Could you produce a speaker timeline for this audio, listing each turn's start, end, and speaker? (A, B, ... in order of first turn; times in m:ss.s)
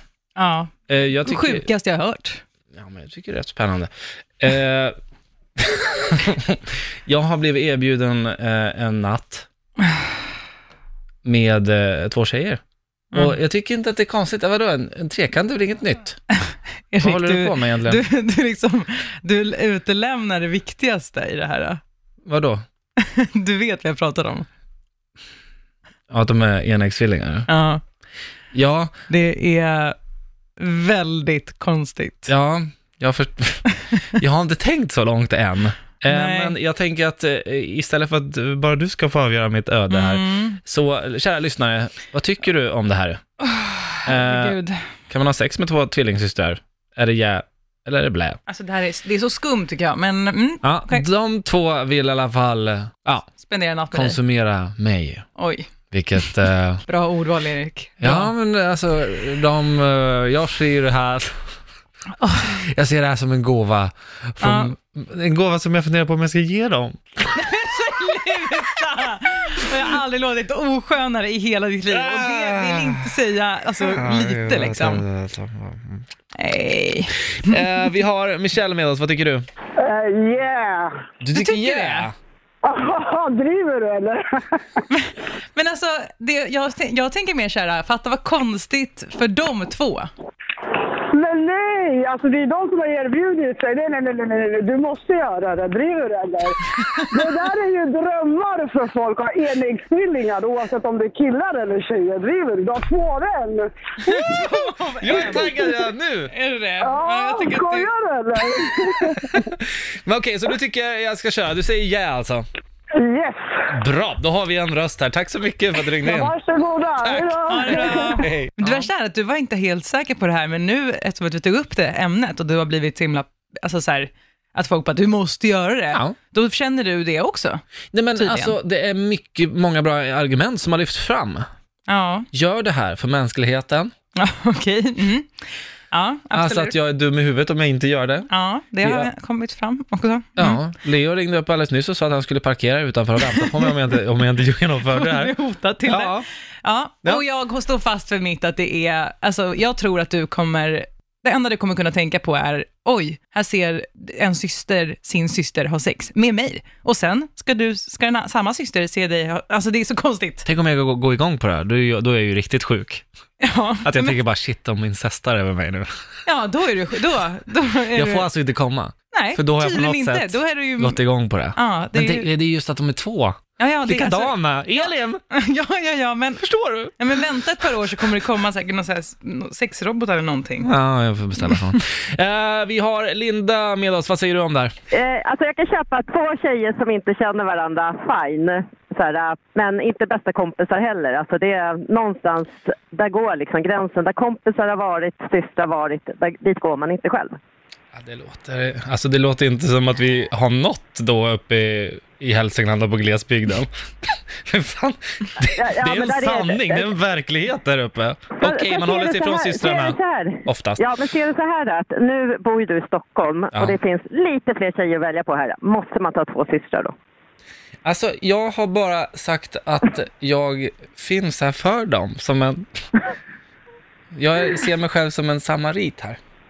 0:00.4-0:02.4 A
0:00.9-0:01.7 B
0:02.7-0:04.9 B
0:05.6-0:09.5 B
0:11.2-0:12.6 B
0:13.1-0:13.4 A
0:13.1-0:16.2 B
0:16.5-0:21.8 A
0:17.0-0:18.0 B
0:22.3-0:22.6 B
0:23.0-0:24.5 A
0:26.1-0:27.5 B
0:27.5-0:27.8 A
0:28.5-0:28.9 B
0:29.1-0:30.0 A
0:30.6-0:32.3 A
0:32.3-0:43.2 B
0:36.1-0:36.6 A
0:39.9-0:40.6 A
0:43.4-0:44.8 A
0:44.0-0:44.6 B
0:45.1-0:48.4 B
0:48.5-0:51.0 A
0:50.6-0:53.3 B
0:53.4-0:54.2 A
0:53.9-0:55.3 B
0:55.4-0:55.7 A
0:55.9-0:56.8 B
0:56.9-0:58.3 A
0:58.0-1:01.4 B
1:02.2-1:02.6 A
1:02.5-1:07.4 B
1:04.4-1:04.7 A
1:07.3-1:15.0 A
1:11.9-1:13.1 B
1:13.8-1:16.0 B
1:16.3-1:17.6 A
1:17.3-1:19.4 B
1:19.8-1:20.9 C
1:21.2-1:22.1 B
1:21.3-1:22.1 A
1:22.6-1:24.8 C
1:24.9-1:30.1 A
1:31.1-1:43.7 C
1:36.7-1:37.3 A
1:44.0-1:45.7 A
1:44.1-1:46.3 B
1:46.3-1:47.9 A
1:46.8-1:49.4 C
1:49.0-1:52.4 B
1:53.0-1:53.4 C
1:53.7-1:56.3 B
1:56.0-1:58.2 C
1:57.0-1:58.9 B
1:57.4-2:07.6 A
2:07.9-2:11.5 B
2:08.2-2:08.5 A
2:11.9-2:12.3 A
2:12.3-2:13.9 B
2:14.2-2:15.3 A
2:15.9-2:16.8 A
2:16.3-2:18.3 B
2:18.3-2:20.6 A
2:18.8-2:19.1 B
2:20.4-2:26.2 B
2:23.3-2:23.7 A
2:24.8-2:40.5 A
2:40.4-2:43.0 B
2:43.4-2:44.2 A
2:43.8-2:45.9 B
2:46.2-2:48.3 A
2:47.9-2:55.2 B
2:49.1-2:51.0 A
2:51.5-2:52.3 A
2:53.6-2:56.4 A
2:56.4-2:57.0 B
2:57.0-3:00.7 A
3:00.6-3:04.8 B
3:04.9-3:17.4 D
3:17.9-3:30.8 B
3:25.4-3:26.9 D
3:28.4-3:36.9 D
3:33.5-3:33.8 B
3:37.8-3:42.6 B
3:44.1-3:46.2 B